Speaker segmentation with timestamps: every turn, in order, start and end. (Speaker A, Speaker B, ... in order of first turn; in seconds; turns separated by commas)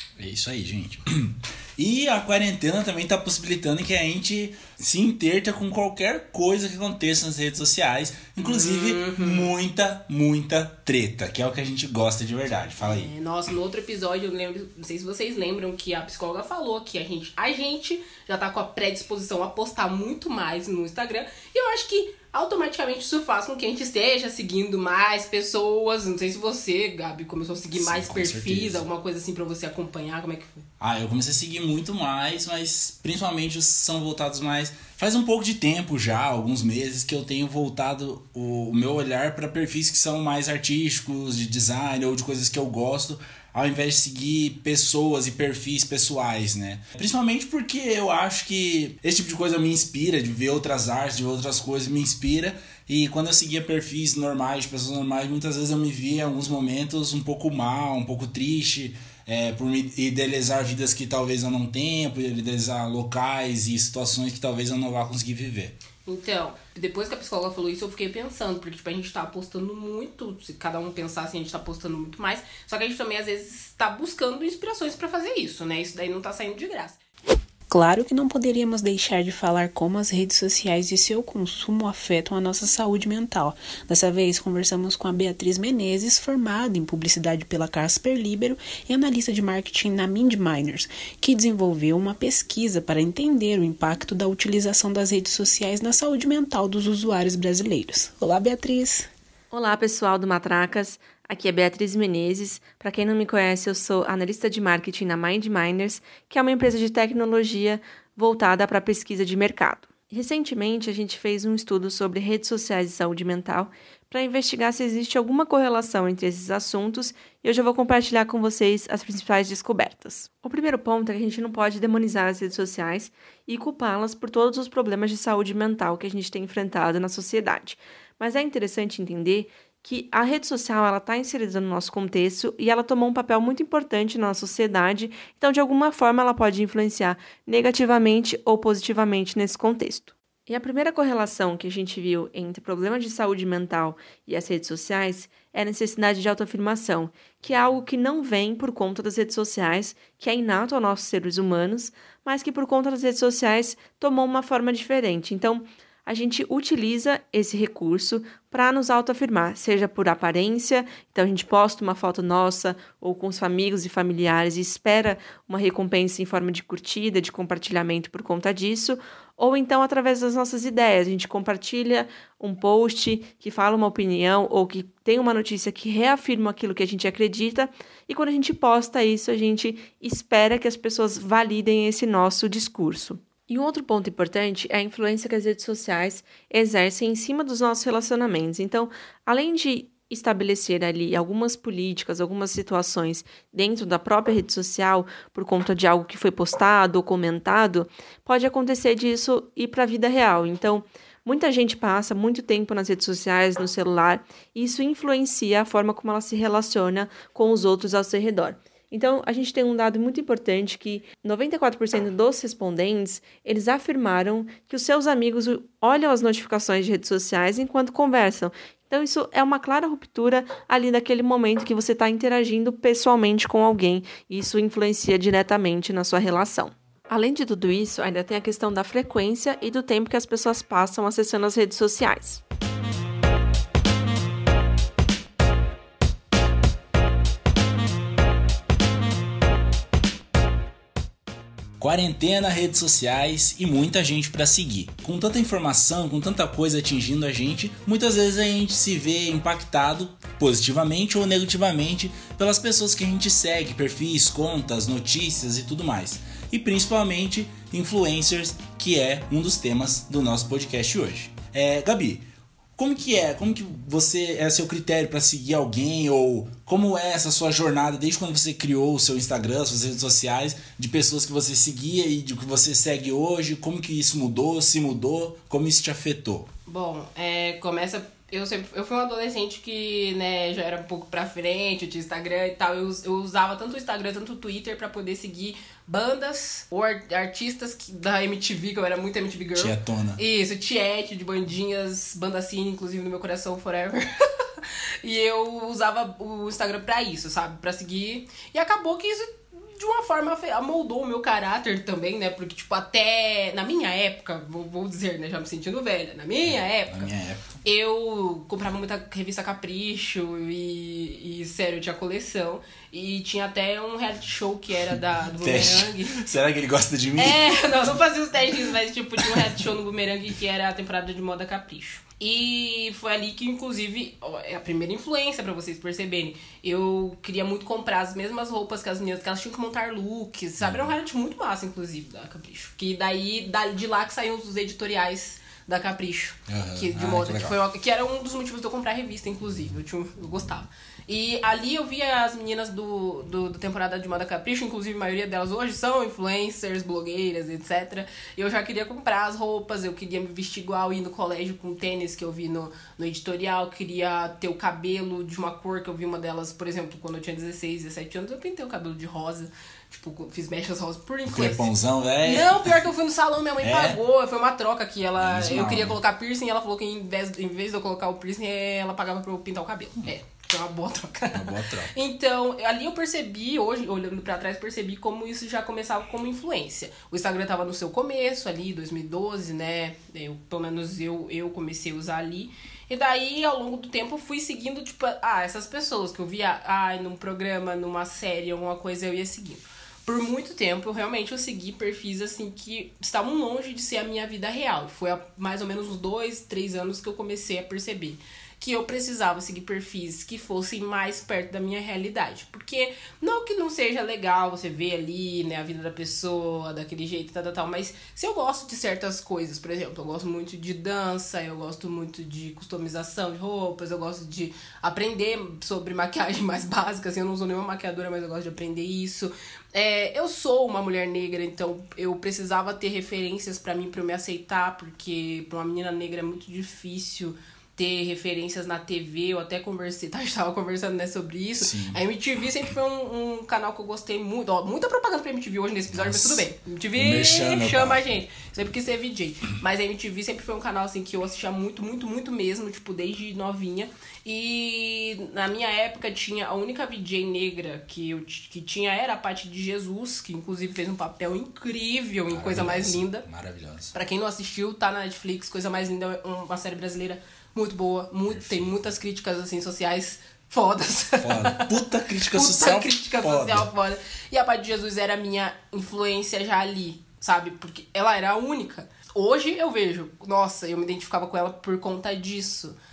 Speaker A: 0.2-13.1, Speaker B: 8.4-9.5, Speaker B: 12.8-30.7, Speaker A: 27.8-28.9, Speaker A: 30.8-65.8, Speaker B: 66.0-77.0, Speaker C: 77.7-99.1, Speaker D: 99.5-232.4, Speaker A: 241.8-262.2, Speaker A: 262.8-276.5, Speaker B: 276.7-294.1, Speaker A: 289.6-290.2, Speaker B: 295.0-307.1, Speaker A: 306.4-307.6, Speaker B: 307.6-316.3, Speaker A: 315.4-317.7, Speaker B: 317.2-361.7, Speaker A: 330.6-330.9, Speaker A: 336.5-337.6, Speaker A: 361.3-362.7, Speaker B: 362.2-453.2, Speaker A: 363.6-364.0, Speaker A: 365.2-366.0, Speaker A: 371.3-371.9, Speaker A: 431.6-432.0, Speaker A: 435.9-438.0, Speaker A: 452.3-453.9, Speaker B: 453.9-461.7, Speaker A: 458.3-458.8, Speaker A: 461.2-463.7, Speaker B: 462.3-472.8